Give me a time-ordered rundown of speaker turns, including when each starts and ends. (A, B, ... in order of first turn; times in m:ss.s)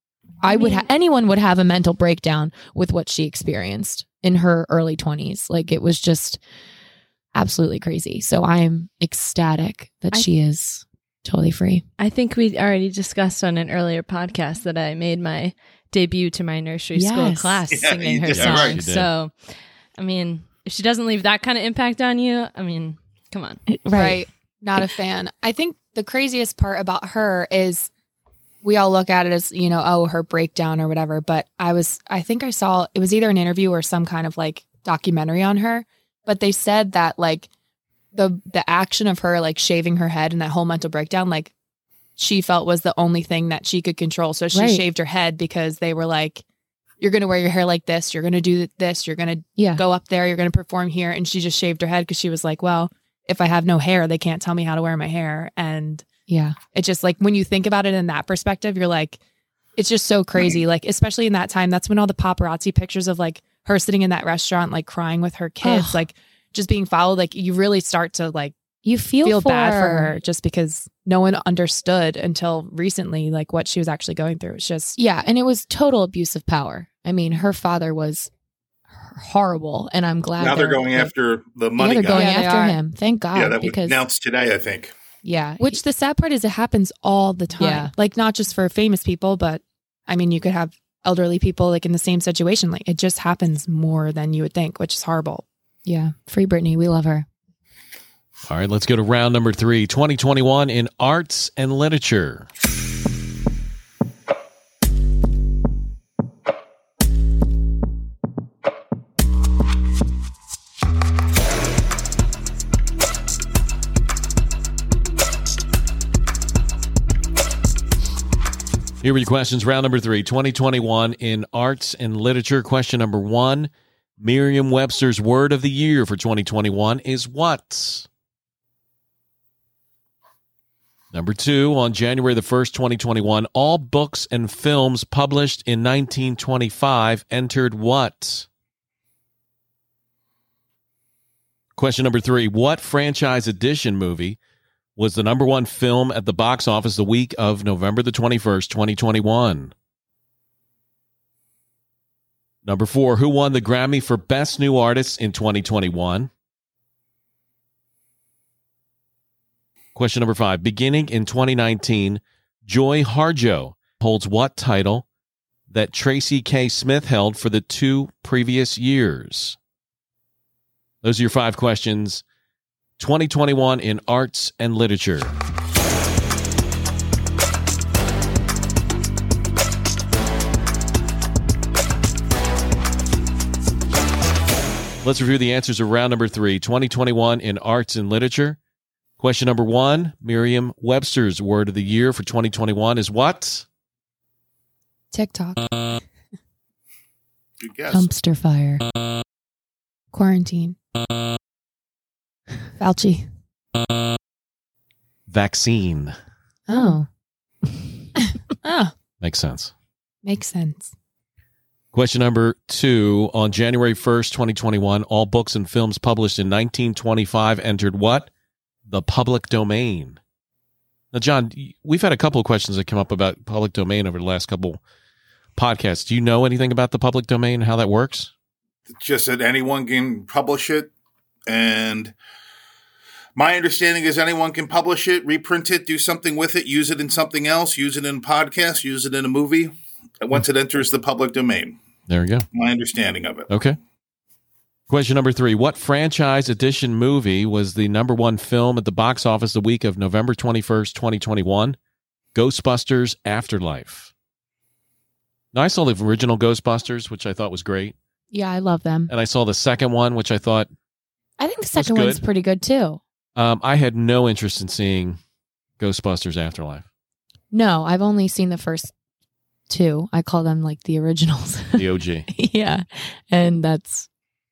0:00.4-0:06.4 A
0:07.3-0:11.8 A
0:12.0-0:19.3 B
0:16.9-0:17.6 A
0:17.7-0:18.8 C
0:18.4-0:19.1 D
0:20.0-0:23.6 B
0:23.7-0:24.2 A
0:23.9-0:27.9 E
0:28.6-0:37.5 E
0:38.1-0:41.5 E
0:42.2-0:46.4 E
0:44.5-0:44.8 A
0:47.0-0:56.0 E
0:49.6-0:49.8 A
0:56.3-0:56.6 A
0:56.7-0:59.2 E
0:59.8-1:08.5 E
1:05.6-1:06.1 A
1:08.8-1:10.1 A
1:09.2-1:15.0 E
1:15.0-1:18.3 A
1:18.9-1:21.1 A
1:20.4-1:22.3 C
1:21.8-1:24.0 A
1:22.1-1:22.8 E
1:23.3-1:24.9 C
1:25.2-1:25.8 A
1:25.6-1:35.4 E
1:27.6-1:27.9 A
1:35.8-1:37.2 A
1:38.5-1:42.5 D
1:59.0-2:08.1 D
2:11.1-2:18.5 D
2:21.8-2:24.4 D
2:25.0-2:29.7 D
2:32.6-2:36.3 D
2:39.9-2:45.0 D
2:45.7-2:49.6 D
2:51.0-2:52.2 D
2:53.0-2:55.4 D
3:05.0-3:08.6 D
3:09.2-3:13.6 D
3:15.1-3:15.7 E
3:17.6-3:18.1 C
3:17.9-3:18.8 A
3:20.1-3:20.8 E
3:22.8-3:23.2 E
3:25.3-3:26.1 D
3:26.7-3:27.0 E
3:26.7-3:27.1 A
3:28.6-3:28.9 E
3:29.2-3:29.7 D
3:30.2-3:30.9 E
3:31.9-3:38.3 D
3:38.9-3:40.2 D
3:41.1-3:44.8 D
3:45.6-3:48.3 D
3:49.0-3:50.9 C
3:51.5-3:52.1 C
3:53.4-4:01.8 C
4:02.1-4:02.4 D
4:02.5-4:03.5 C
4:03.5-4:03.8 D
4:04.9-4:11.8 D
4:12.3-4:14.1 D
4:15.5-4:17.9 D
4:18.3-4:19.1 A
4:19.1-4:20.7 D
4:21.4-4:23.0 A
4:21.7-4:22.2 D
4:23.3-4:25.2 D
4:25.8-4:26.8 D
4:27.5-4:28.9 A
4:29.7-4:34.1 A
4:31.8-4:32.3 D